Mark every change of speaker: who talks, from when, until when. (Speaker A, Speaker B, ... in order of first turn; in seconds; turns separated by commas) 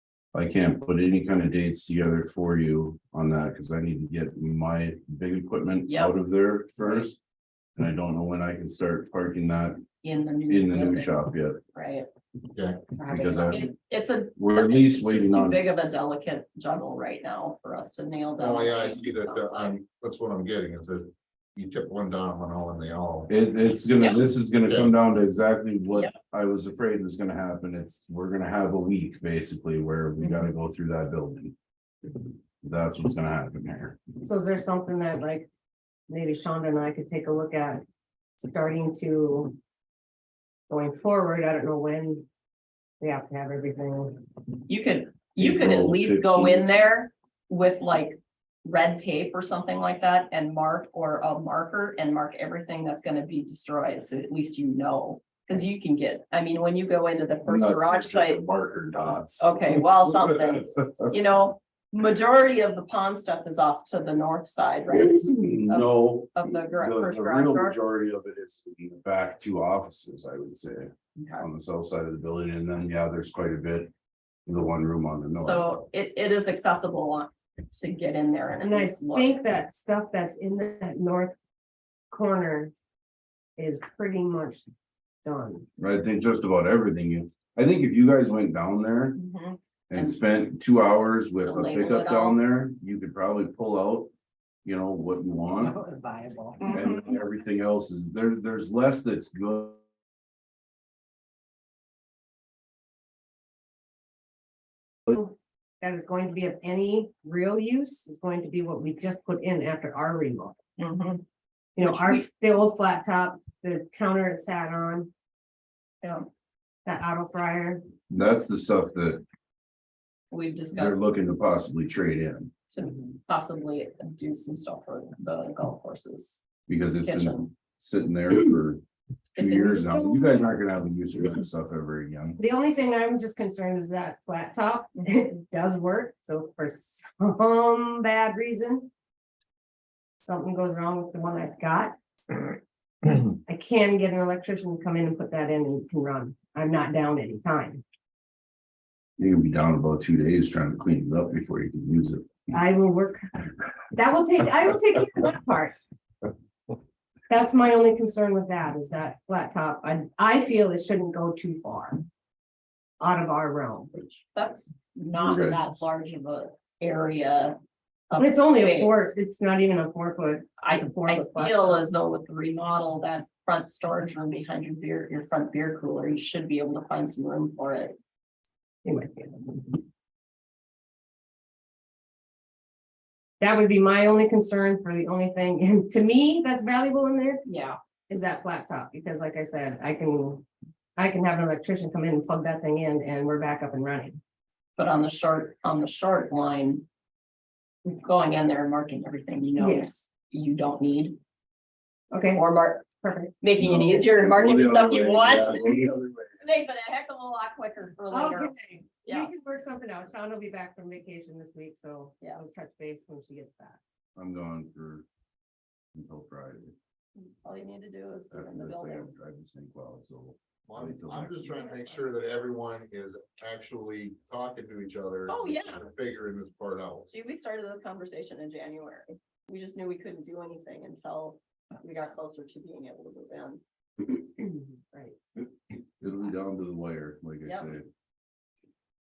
Speaker A: 0.3-7.2, Speaker B: 5.9-6.1, Speaker B: 6.8-7.1, Speaker A: 7.8-9.8, Speaker B: 10.0-11.2, Speaker A: 10.5-11.6, Speaker B: 11.7-12.1, Speaker C: 12.5-12.9, Speaker B: 13.0-19.8, Speaker A: 13.1-13.7, Speaker A: 14.4-15.6, Speaker C: 18.4-23.3, Speaker A: 23.3-31.5, Speaker C: 24.6-24.9, Speaker A: 32.6-34.0, Speaker D: 34.2-35.5, Speaker D: 36.1-37.8, Speaker D: 38.4-39.6, Speaker D: 40.7-42.2, Speaker D: 43.0-44.2, Speaker B: 44.7-58.4, Speaker A: 45.4-46.8, Speaker A: 57.5-59.6, Speaker B: 59.4-67.8, Speaker A: 64.9-73.9, Speaker B: 71.2-71.5, Speaker A: 74.5-75.7, Speaker B: 75.3-79.4, Speaker D: 78.6-81.3, Speaker D: 82.1-82.7, Speaker D: 83.6-84.7, Speaker D: 85.2-85.7, Speaker A: 85.8-89.2, Speaker B: 89.2-90.2, Speaker A: 89.9-94.1, Speaker B: 91.4-92.4, Speaker A: 94.6-95.8, Speaker D: 95.6-96.9, Speaker A: 96.7-99.8, Speaker D: 105.1-110.6, Speaker B: 110.8-111.2, Speaker D: 111.8-115.1, Speaker B: 111.8-112.2, Speaker B: 116.0-116.3, Speaker D: 116.8-117.8, Speaker A: 118.1-119.2, Speaker B: 120.3-121.0, Speaker A: 120.7-122.5, Speaker B: 122.7-126.4, Speaker A: 126.7-128.8, Speaker B: 127.0-127.5, Speaker A: 129.3-132.4, Speaker B: 129.3-129.9, Speaker D: 129.6-130.3, Speaker D: 132.4-138.9, Speaker D: 140.2-141.9, Speaker D: 143.4-147.8, Speaker A: 149.2-152.3, Speaker D: 152.5-153.2, Speaker D: 153.9-155.8, Speaker D: 157.3-162.0, Speaker D: 163.0-164.0, Speaker B: 164.3-167.6, Speaker A: 165.2-165.6, Speaker B: 168.1-169.1, Speaker D: 168.2-171.8, Speaker B: 170.6-177.9, Speaker D: 178.8-179.8, Speaker D: 183.4-187.4, Speaker B: 187.4-187.8, Speaker D: 188.1-190.4, Speaker D: 191.0-194.2, Speaker B: 194.8-196.9, Speaker B: 197.8-201.2, Speaker D: 199.6-200.0, Speaker D: 202.1-202.4, Speaker B: 202.3-205.8, Speaker D: 203.0-203.9, Speaker A: 203.6-206.4, Speaker B: 206.4-209.4, Speaker D: 208.1-213.8, Speaker A: 214.2-215.0, Speaker A: 215.9-216.7, Speaker B: 217.2-219.1, Speaker A: 218.3-222.0, Speaker C: 220.7-227.1, Speaker B: 225.3-225.8, Speaker B: 227.1-233.6, Speaker D: 234.4-235.2, Speaker A: 236.0-237.8, Speaker B: 237.4-237.7